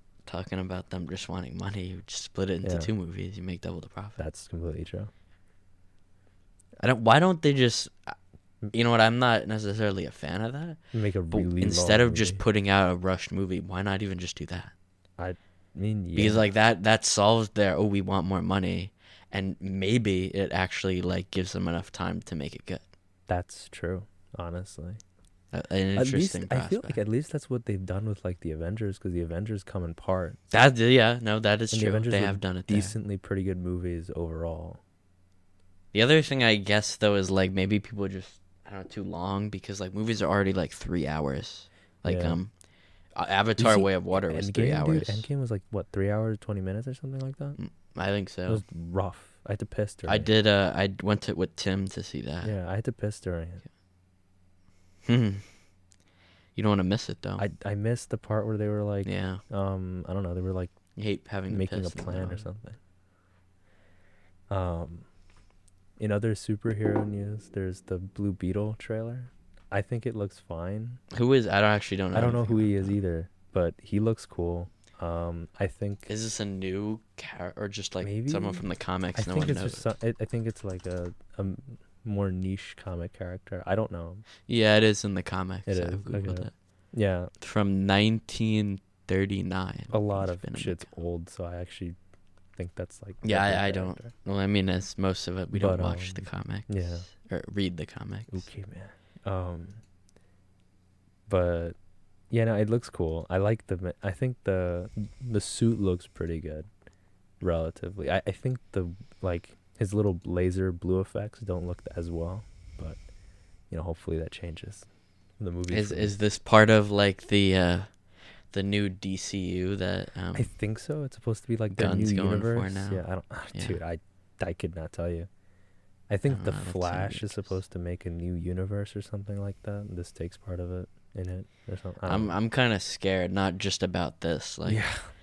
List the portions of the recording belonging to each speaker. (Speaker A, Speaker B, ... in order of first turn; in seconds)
Speaker A: 0.2-4.2, 6.8-8.1, 8.7-10.8, 11.3-14.7, 16.1-22.8, 25.5-27.0, 30.5-33.0, 35.9-42.5, 43.1-45.3, 47.6-48.6, 50.1-52.5, 55.0-55.4, 56.5-57.4, 59.0-59.4, 60.9-62.5, 71.1-73.0, 76.1-79.9, 84.5-86.5, 87.4-90.9, 93.2-98.5, 115.7-117.9, 118.5-120.5, 121.7-123.8, 126.2-127.5, 132.0-134.8
Speaker B: 2.6-2.9, 4.2-5.1, 10.9-12.4, 15.2-16.4, 23.3-25.0, 25.9-30.4, 31.7-34.8, 42.0-42.4, 43.6-47.6, 48.5-50.3, 52.4-53.6, 57.4-60.7, 61.5-62.8, 64.5-65.0, 66.0-71.0, 72.1-76.1, 78.0-78.7, 79.2-84.2, 85.7-87.3, 89.9-92.0, 92.6-94.1, 95.5-97.1, 98.3-99.8, 101.3-101.8, 102.3-106.7, 107.4-113.0, 113.7-114.9, 115.4-116.1, 120.3-125.3, 126.1-132.3, 134.7-135.1